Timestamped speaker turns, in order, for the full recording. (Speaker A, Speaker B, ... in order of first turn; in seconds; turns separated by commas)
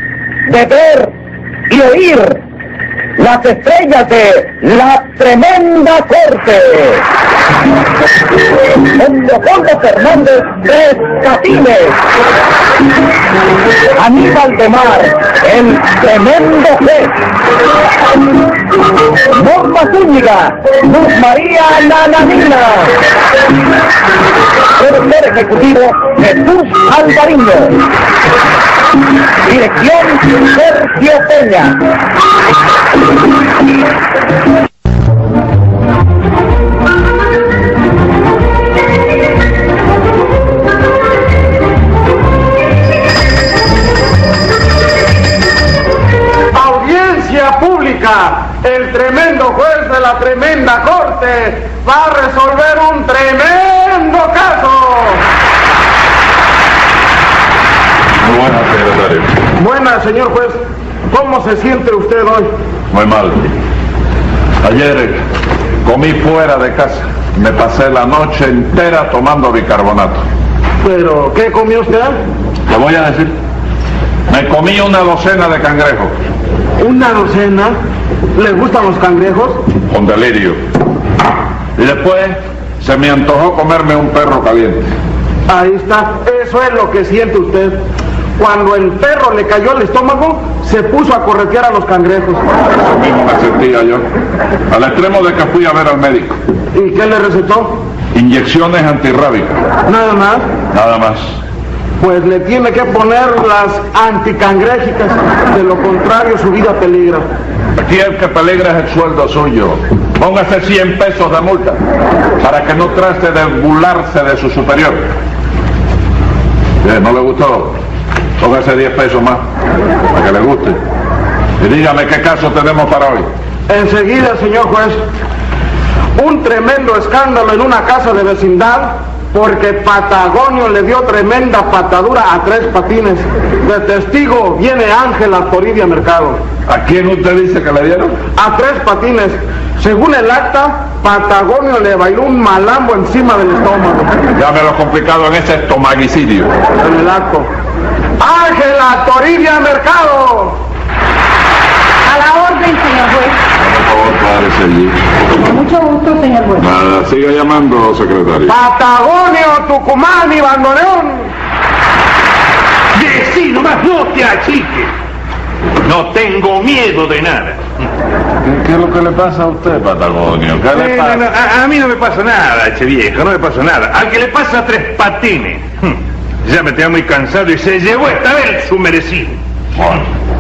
Speaker A: 0.5-1.1, Speaker A: 1.7-2.4, Speaker A: 3.2-7.0, Speaker A: 8.8-12.0, Speaker A: 13.9-17.2, Speaker A: 19.3-23.0, Speaker A: 24.8-27.8, Speaker A: 29.5-31.8, Speaker B: 46.5-55.2, Speaker C: 58.2-59.3, Speaker B: 59.6-60.6, Speaker B: 61.1-62.5, Speaker C: 62.9-63.5, Speaker C: 64.6-65.2, Speaker C: 65.8-70.2, Speaker B: 70.8-72.2, Speaker C: 72.7-73.4, Speaker C: 74.3-76.2, Speaker B: 76.8-77.8, Speaker B: 78.4-79.6, Speaker C: 79.9-80.6, Speaker C: 81.8-84.9, Speaker B: 85.5-87.8, Speaker B: 88.4-92.4, Speaker C: 92.8-94.1, Speaker C: 94.7-96.4, Speaker B: 96.7-97.8, Speaker C: 98.1-99.6, Speaker B: 99.9-100.5, Speaker C: 100.7-101.4, Speaker B: 102.0-107.3, Speaker C: 107.8-111.8, Speaker C: 112.4-115.1, Speaker C: 116.8-117.8, Speaker C: 118.4-119.5, Speaker C: 120.1-120.8, Speaker C: 121.6-123.3, Speaker B: 123.7-125.0, Speaker B: 126.2-136.4, Speaker C: 136.7-138.2, Speaker B: 138.4-144.2, Speaker C: 144.3-146.5, Speaker B: 146.8-147.5, Speaker B: 148.2-150.6, Speaker D: 152.1-153.4, Speaker C: 153.6-155.0, Speaker D: 155.4-156.7, Speaker C: 156.6-158.6, Speaker B: 158.5-161.3, Speaker E: 162.9-164.9, Speaker E: 165.8-167.9, Speaker C: 168.4-171.3, Speaker E: 170.7-179.4, Speaker C: 179.8-180.1